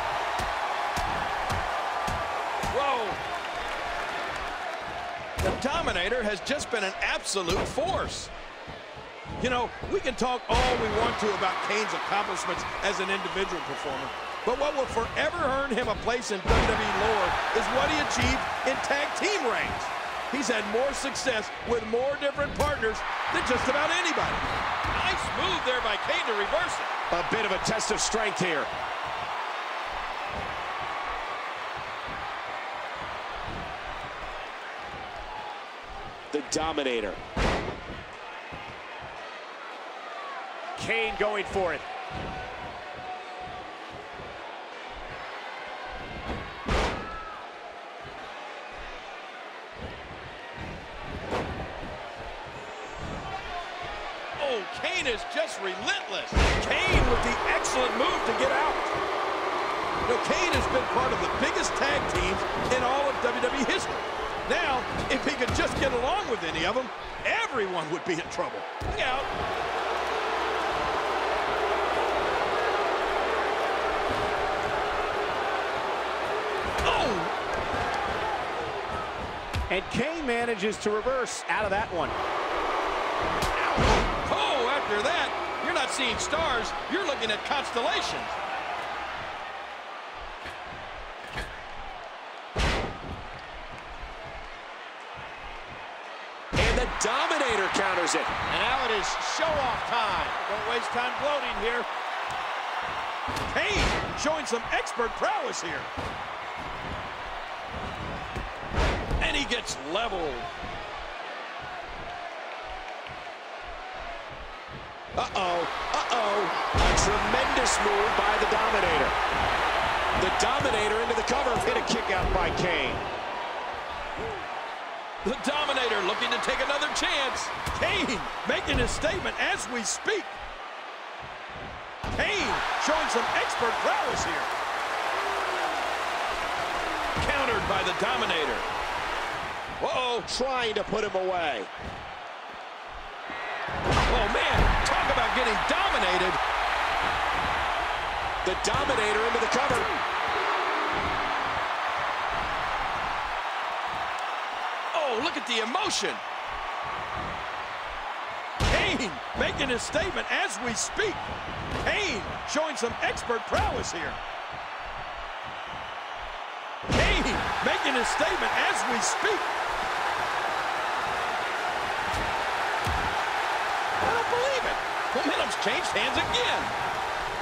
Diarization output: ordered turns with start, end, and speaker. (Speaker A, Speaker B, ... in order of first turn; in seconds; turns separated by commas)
Speaker A: 2.7-3.2, Speaker A: 5.4-8.3, Speaker A: 9.4-26.9, Speaker B: 27.1-28.7, Speaker B: 36.3-37.2, Speaker B: 40.8-41.8, Speaker A: 54.4-58.9, Speaker A: 60.0-69.3, Speaker A: 76.8-77.3, Speaker B: 79.7-82.1, Speaker A: 83.6-88.3, Speaker B: 96.5-98.5, Speaker A: 98.5-101.8, Speaker B: 99.5-100.2, Speaker A: 103.5-105.9, Speaker A: 109.2-110.5, Speaker B: 115.2-119.1, Speaker B: 120.2-123.0, Speaker A: 125.2-130.3, Speaker A: 132.1-134.5, Speaker A: 137.2-138.7, Speaker A: 139.8-140.3, Speaker B: 140.3-141.7, Speaker A: 143.9-146.4, Speaker B: 148.4-149.9, Speaker A: 154.9-156.2, Speaker A: 158.7-161.2, Speaker A: 161.8-164.2, Speaker A: 166.9-169.5, Speaker A: 174.0-176.7